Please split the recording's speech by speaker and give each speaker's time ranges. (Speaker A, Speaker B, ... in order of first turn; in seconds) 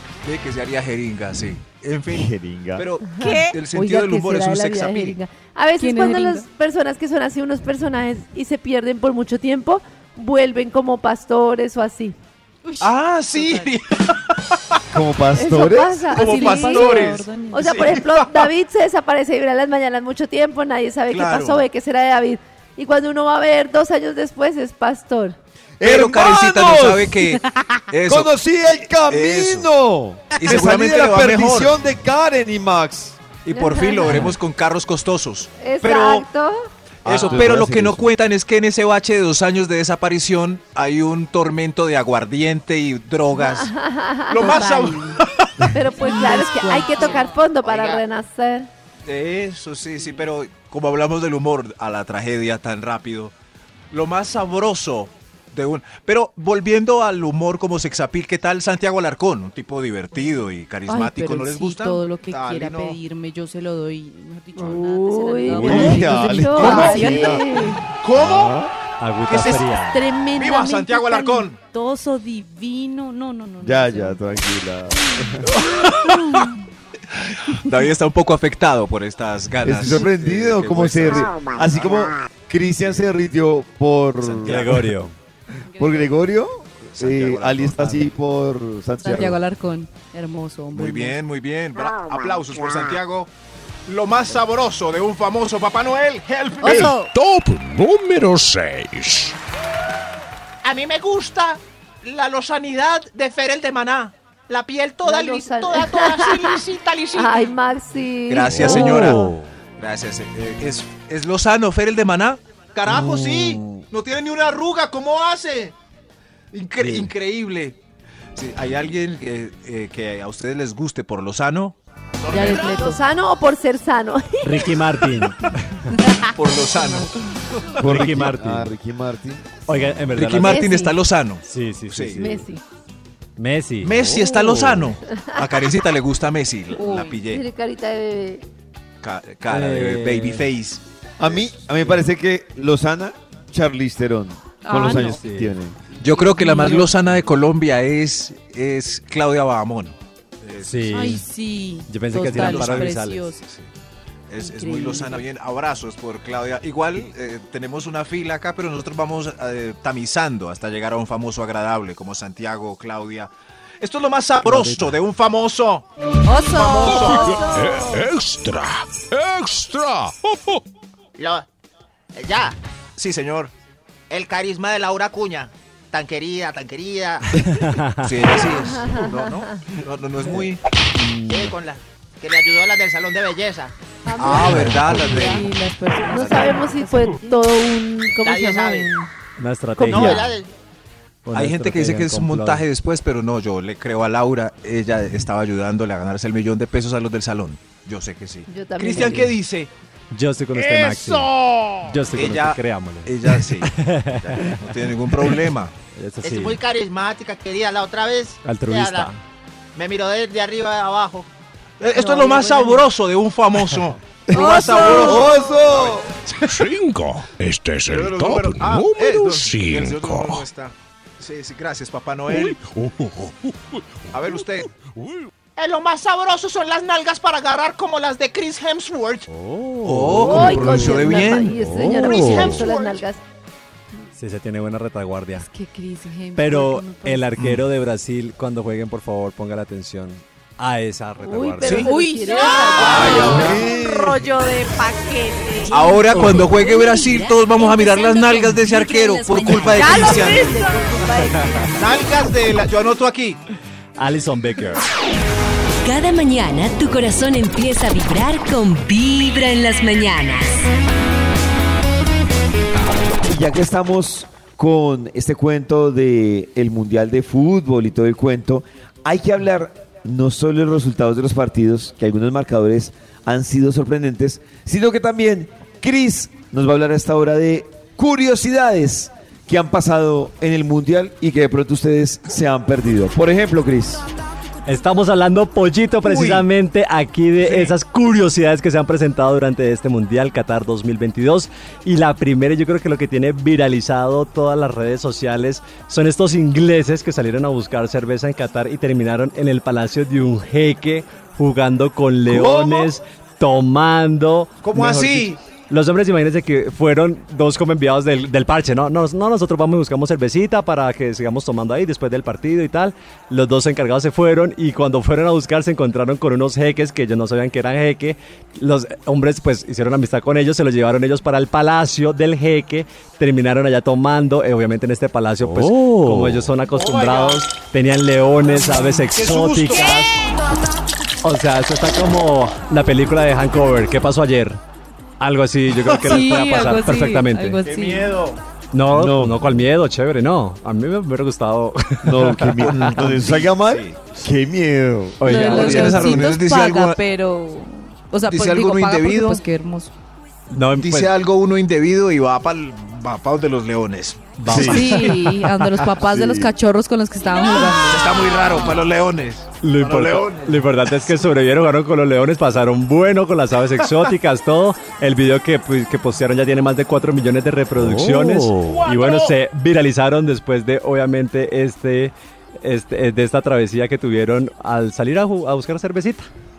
Speaker A: 0.2-5.2, 12.8-13.8, 16.1-18.3, 21.1-21.7, 25.8-28.3, 29.1-29.7, 30.3-31.8, 33.4-36.2, 37.0-43.7, 44.3-45.5, 49.0-53.3, 53.9-62.9, 66.6-66.9, 68.0-68.5, 69.3-69.6, 70.3-71.6, 75.5-76.3, 77.4-82.0, 84.2-84.8, 86.9-88.1, 90.7-93.3, 93.9-96.9, 108.3-114.4, 116.5-117.8, 118.3-121.8, 126.3-128.1, 130.1-132.2, 133.8-137.4, 139.0-141.5, 146.0-151.1, 152.2-153.7, 154.3-163.3, 163.8-165.8, 166.5-167.3, 173.0-173.5, 178.0-180.6, 184.2-185.5, 186.1-186.6, 191.3-199.7, 202.1-205.7, 211.8-216.5, 217.9-222.6, 224.1-224.7, 229.8-231.6, 241.6-241.9, 242.8-243.5, 245.7-250.5, 251.8-253.4, 286.0-286.4, 287.4-287.7, 304.6-305.4, 329.1-330.0, 337.7-338.3, 342.6-344.1, 345.3-347.0, 348.3-349.4, 350.8-354.4, 357.8-360.6
Speaker B: 2.1-2.9, 14.9-16.1, 25.8-27.2, 28.1-33.2, 37.0-38.1, 65.5-68.7, 73.6-75.5, 79.6-84.8, 85.8-89.4, 127.8-129.8, 141.2-145.8, 214.3-216.1, 242.8-244.2, 263.2-284.0, 302.3-302.9, 338.9-339.5, 342.0-346.0, 354.5-355.0, 356.0-356.5
Speaker C: 3.1-12.1, 15.3-25.4, 33.5-34.3, 35.6-36.6, 43.3-45.1, 45.7-48.7, 64.5-67.8, 105.0-106.5, 107.1-109.3, 122.5-124.7, 130.5-130.9, 132.2-132.6, 135.2-135.4, 136.8-138.4, 166.9-167.9, 178.8-179.2, 184.0-185.4, 186.1-189.1, 189.8-190.2, 198.5-199.3, 212.2-212.5, 214.3-215.3, 230.2-233.2, 241.2-243.6, 249.8-251.8
Speaker D: 3.2-3.5, 5.8-6.5, 12.6-13.7, 16.1-18.0, 44.5-45.0, 45.9-47.3, 60.9-67.4, 69.8-74.2, 76.1-76.5, 85.7-86.1, 89.0-91.2, 96.6-97.1, 122.3-123.0, 126.0-127.1, 136.8-137.2, 144.6-145.2, 145.9-146.9, 150.9-153.4, 154.4-155.2, 166.2-167.5, 184.4-187.2, 214.4-215.2, 235.3-237.3, 241.7-245.8, 249.8-251.1, 336.0-338.2, 345.3-349.9, 354.5-358.1
Speaker E: 47.6-48.0, 94.3-96.9, 100.6-107.5, 112.8-113.6, 114.3-115.7, 122.2-122.9, 171.2-171.4, 172.1-172.6, 174.1-177.3, 181.3-183.7, 188.2-188.9, 189.8-190.5, 200.6-201.7, 206.2-209.1, 209.7-211.3, 225.6-229.3, 231.8-233.0, 242.2-243.4, 304.8-305.1, 329.7-329.9, 368.6-369.3
Speaker F: 69.0-70.0, 84.4-85.1, 108.8-109.1, 116.8-117.1, 124.4-125.9, 127.8-128.7, 129.7-130.6, 131.4-132.4, 133.4-134.9, 139.5-140.4, 144.8-145.5, 150.6-151.2, 151.9-153.2, 164.4-164.9, 177.4-178.1, 181.0-181.5, 184.5-185.0, 189.4-190.3, 191.2-192.6, 200.1-204.6, 205.9-206.6, 208.4-209.2, 229.9-230.8, 234.1-235.4, 236.3-241.9, 246.1-246.5, 251.3-251.7, 254.0-254.8, 284.6-330.2, 331.2-334.6, 335.2-337.6, 338.7-343.0, 345.2-346.2, 350.5-351.1, 354.4-355.5, 359.6-376.3
Speaker G: 96.7-99.3, 166.9-170.6, 216.4-220.4, 222.3-223.8, 224.8-225.2
Speaker H: 245.7-250.4, 255.8-260.7